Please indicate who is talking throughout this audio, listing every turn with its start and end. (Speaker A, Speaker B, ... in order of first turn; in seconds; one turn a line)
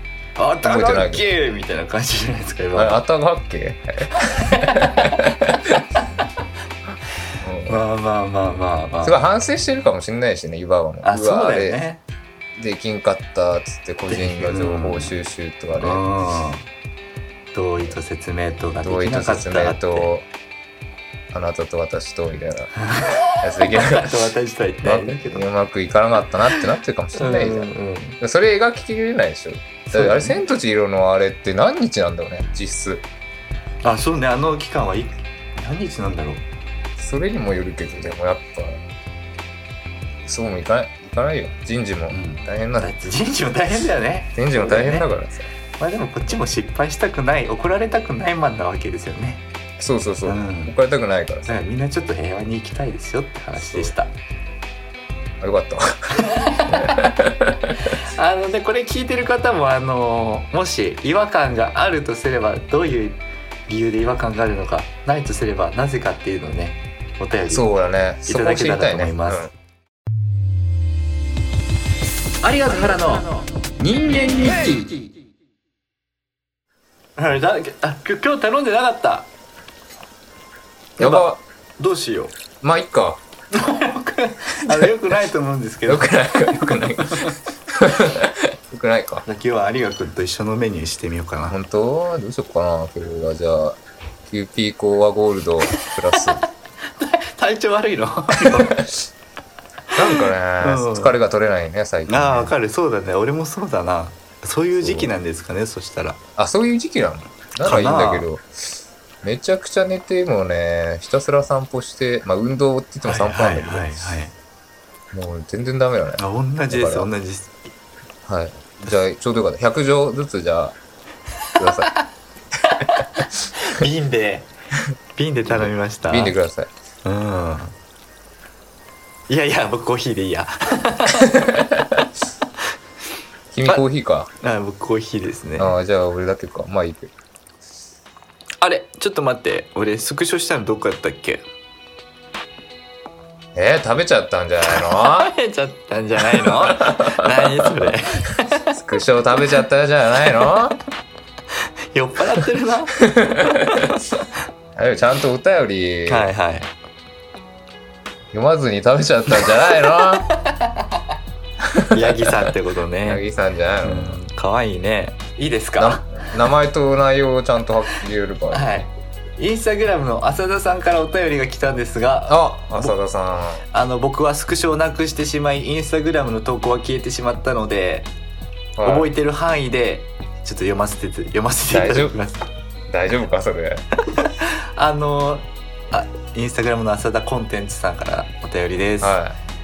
Speaker A: 0.4-3.0
Speaker B: 0.6-1.2
Speaker B: 2.7-5.5
Speaker A: 4.1-5.1
Speaker B: 7.4-7.8
Speaker A: 7.7-9.2
Speaker B: 9.0-11.8
Speaker A: 11.0-12.0
Speaker B: 12.6-16.0
Speaker A: 14.1-15.1
Speaker A: 15.8-16.7
Speaker A: 17.5-20.1
Speaker B: 18.8-20.2
Speaker B: 21.3-22.7
Speaker A: 22.8-25.5
Speaker B: 23.4-24.2
Speaker B: 24.8-33.0
Speaker A: 27.1-28.2
Speaker A: 29.9-30.4
Speaker A: 33.8-36.4
Speaker B: 37.0-38.8
Speaker B: 40.2-42.9
Speaker A: 42.1-45.1
Speaker B: 44.4-45.5
Speaker A: 45.8-49.4
Speaker B: 49.8-51.5
Speaker A: 50.2-50.7
Speaker A: 51.5-54.1
Speaker B: 53.6-53.9
Speaker B: 55.4-56.1
Speaker A: 56.2-57.1
Speaker B: 56.7-57.9
Speaker A: 57.9-67.7
Speaker B: 67.5-69.5
Speaker A: 68.2-69.5
Speaker C: 72.4-73.2
Speaker A: 72.6-73.2
Speaker C: 73.8-74.9
Speaker A: 77.2-79.3
Speaker A: 81.0-82.3
Speaker B: 81.0-81.4
Speaker B: 82.6-83.2
Speaker A: 83.5-87.3
Speaker B: 85.8-89.2
Speaker A: 89.2-91.6
Speaker B: 91.5-96.4
Speaker A: 95.8-96.1
Speaker A: 97.0-98.9
Speaker B: 99.9-102.5
Speaker A: 100.0-101.2
Speaker A: 102.1-106.2
Speaker B: 104.8-105.1
Speaker B: 106.4-108.5
Speaker A: 107.6-108.3
Speaker B: 109.2-114.0
Speaker A: 113.0-114.3
Speaker B: 115.1-117.1
Speaker A: 116.2-117.6
Speaker B: 118.2-120.8
Speaker A: 121.5-122.1
Speaker B: 121.6-121.9
Speaker A: 122.7-124.5
Speaker A: 125.1-126.3
Speaker B: 125.5-126.7
Speaker A: 127.0-127.8
Speaker A: 129.3-131.6
Speaker B: 133.5-134.3
Speaker A: 134.4-135.8
Speaker B: 135.6-137.1
Speaker A: 138.6-141.4
Speaker B: 143.5-145.3
Speaker A: 144.7-148.6
Speaker B: 146.2-147.9
Speaker B: 148.7-150.8
Speaker A: 151.9-153.0
Speaker B: 153.0-153.9
Speaker A: 153.5-154.0
Speaker B: 154.8-156.3
Speaker A: 156.1-156.7
Speaker B: 158.3-160.3
Speaker A: 159.4-161.0
Speaker B: 161.7-162.3
Speaker A: 161.8-163.2
Speaker B: 163.0-164.2
Speaker A: 163.8-166.2
Speaker B: 165.8-168.7
Speaker A: 168.5-172.9
Speaker B: 172.3-173.6
Speaker A: 173.7-178.1
Speaker B: 178.8-179.1
Speaker A: 178.8-182.5
Speaker B: 181.7-182.1
Speaker B: 182.9-183.8
Speaker A: 184.1-189.2
Speaker B: 189.0-189.4